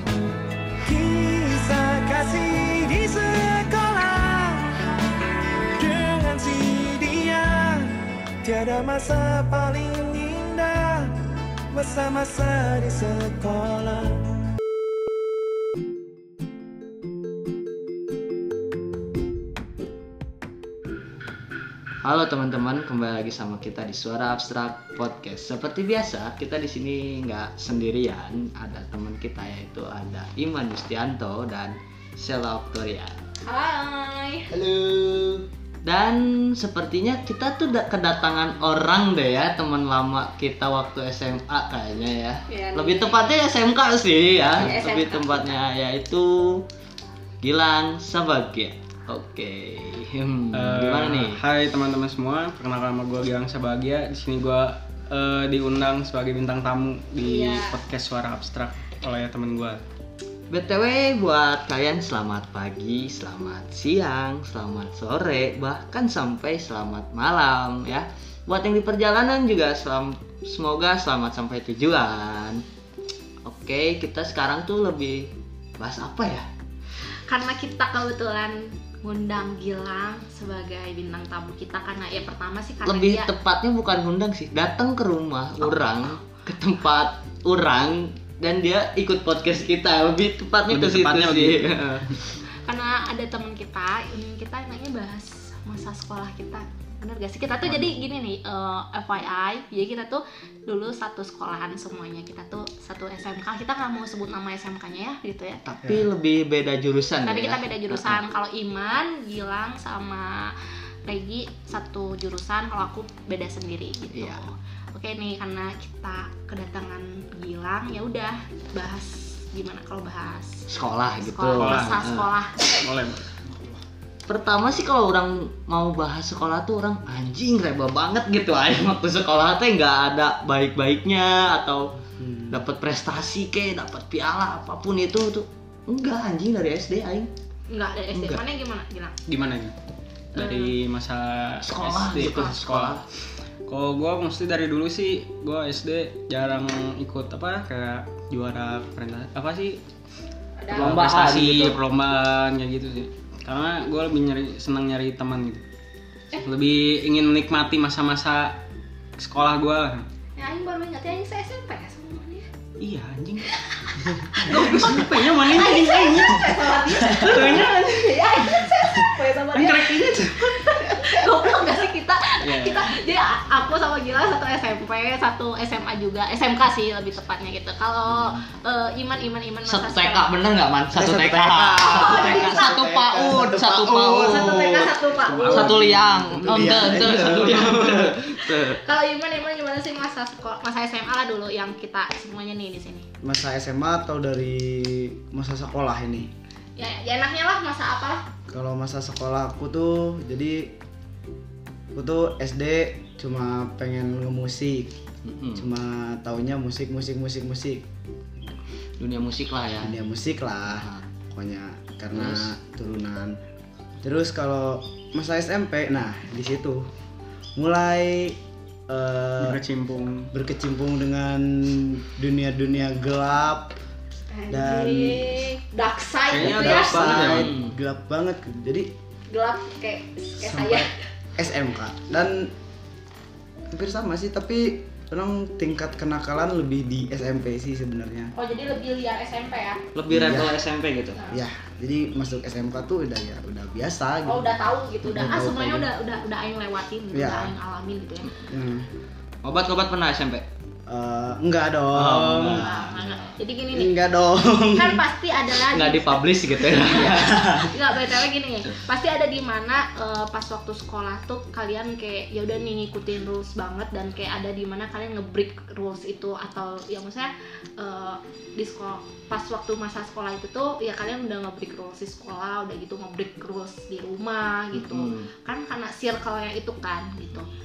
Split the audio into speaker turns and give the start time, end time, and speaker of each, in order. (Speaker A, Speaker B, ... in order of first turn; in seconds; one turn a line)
Speaker A: 0.8-4.8
Speaker A: 5.8-11.1
Speaker A: 11.7-14.2
Speaker B: 22.0-33.1
Speaker C: 33.4-34.5
Speaker D: 34.5-35.5
Speaker B: 35.8-46.6
Speaker C: 42.5-43.4
Speaker C: 44.5-45.6
Speaker B: 47.4-51.4
Speaker E: 50.5-59.8
Speaker C: 57.2-57.8
Speaker B: 60.5-72.6
Speaker B: 73.4-76.5
Speaker C: 77.3-83.3
Speaker B: 82.8-92.3
Speaker C: 85.6-86.0
Speaker E: 90.7-92.1
Speaker C: 92.6-105.6
Speaker B: 97.7-97.9
Speaker B: 105.7-108.2
Speaker C: 107.2-110.5
Speaker C: 111.1-120.7
Speaker B: 114.1-114.4
Speaker B: 120.7-122.3
Speaker C: 121.2-122.5
Speaker E: 121.6-122.0
Speaker E: 122.6-123.3
Speaker D: 123.4-123.8
Speaker B: 124.3-131.9
Speaker D: 132.2-132.6
Speaker B: 132.5-137.3
Speaker C: 137.7-139.1
Speaker B: 138.1-138.4
Speaker E: 139.3-139.7
Speaker E: 140.3-143.0
Speaker C: 140.3-140.7
Speaker B: 141.6-143.1
Speaker E: 143.7-149.8
Speaker C: 150.6-150.9
Speaker E: 150.7-155.6
Speaker B: 150.7-151.8
Speaker E: 156.4-158.6
Speaker E: 159.2-160.1
Speaker C: 160.4-162.5
Speaker E: 162.8-163.4
Speaker C: 163.4-180.3
Speaker E: 164.3-168.4
Speaker D: 167.1-167.3
Speaker E: 169.5-171.1
Speaker E: 172.4-172.9
Speaker B: 178.1-178.4
Speaker B: 179.7-184.8
Speaker D: 180.9-188.2
Speaker C: 181.8-182.8
Speaker C: 184.2-185.8
Speaker E: 185.2-186.9
Speaker B: 185.5-188.8
Speaker C: 188.3-193.1
Speaker D: 193.2-196.3
Speaker C: 196.8-198.3
Speaker D: 198.5-200.7
Speaker D: 201.9-204.9
Speaker B: 205.2-205.7
Speaker D: 205.5-207.8
Speaker B: 209.0-209.9
Speaker D: 209.8-213.4
Speaker B: 210.8-211.0
Speaker B: 212.1-212.5
Speaker D: 214.0-216.9
Speaker D: 217.6-219.6
Speaker E: 219.4-220.3
Speaker D: 220.3-223.7
Speaker C: 224.3-227.4
Speaker D: 224.5-225.4
Speaker D: 226.3-228.9
Speaker E: 226.3-227.5
Speaker B: 227.3-227.8
Speaker C: 229.3-230.9
Speaker D: 230.4-232.5
Speaker D: 233.7-238.3
Speaker C: 238.3-239.8
Speaker B: 239.9-241.2
Speaker D: 240.1-240.6
Speaker D: 241.3-244.5
Speaker C: 244.2-248.3
Speaker D: 245.0-245.9
Speaker D: 247.1-247.5
Speaker D: 248.5-248.9
Speaker B: 249.4-250.4
Speaker D: 250.9-252.7
Speaker B: 251.9-253.4
Speaker C: 252.6-254.0
Speaker D: 253.7-255.0
Speaker C: 254.7-277.5
Speaker B: 255.7-257.7
Speaker D: 257.1-257.7
Speaker B: 274.7-275.3